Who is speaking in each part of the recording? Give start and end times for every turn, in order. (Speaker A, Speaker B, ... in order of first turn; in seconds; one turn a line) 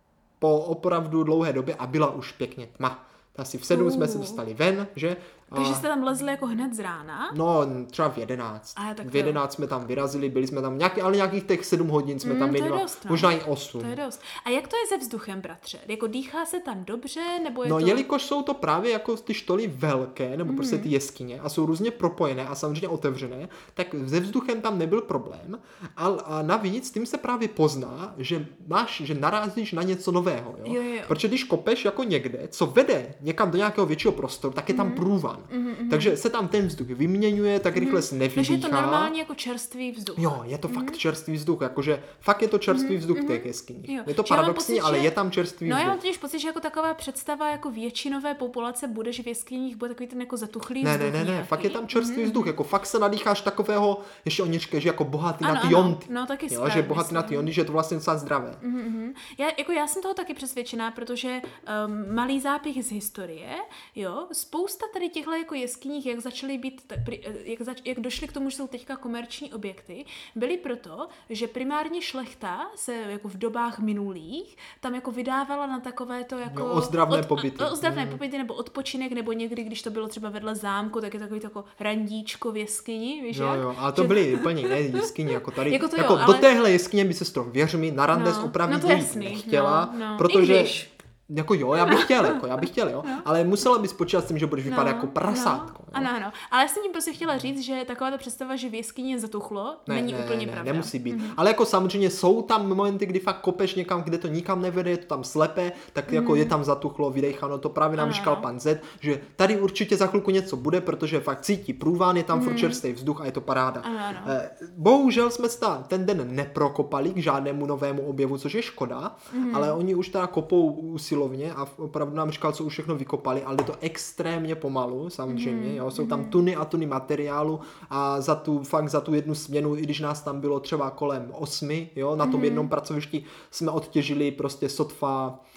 Speaker A: 0.4-5.8
Speaker B: 3.7-4.4
Speaker B: 5.5-7.3
Speaker A: 7.3-14.0
Speaker B: 8.8-9.4
Speaker B: 12.2-18.0
Speaker A: 17.6-39.1
Speaker B: 20.5-20.9
Speaker B: 30.6-31.1
Speaker B: 34.7-36.1
Speaker B: 37.7-41.0
Speaker A: 40.2-46.0
Speaker B: 42.7-45.1
Speaker B: 45.6-52.5
Speaker A: 50.8-58.6
Speaker B: 55.4-57.5
Speaker B: 58.6-86.5
Speaker A: 76.5-78.2
Speaker A: 83.3-96.1
Speaker B: 88.1-90.9
Speaker B: 91.8-92.4
Speaker B: 94.7-101.4
Speaker A: 99.9-135.4
Speaker B: 106.1-106.5
Speaker B: 108.0-108.5
Speaker B: 112.3-112.8
Speaker B: 113.8-114.3
Speaker B: 119.3-119.8
Speaker B: 125.3-126.3
Speaker B: 132.2-132.7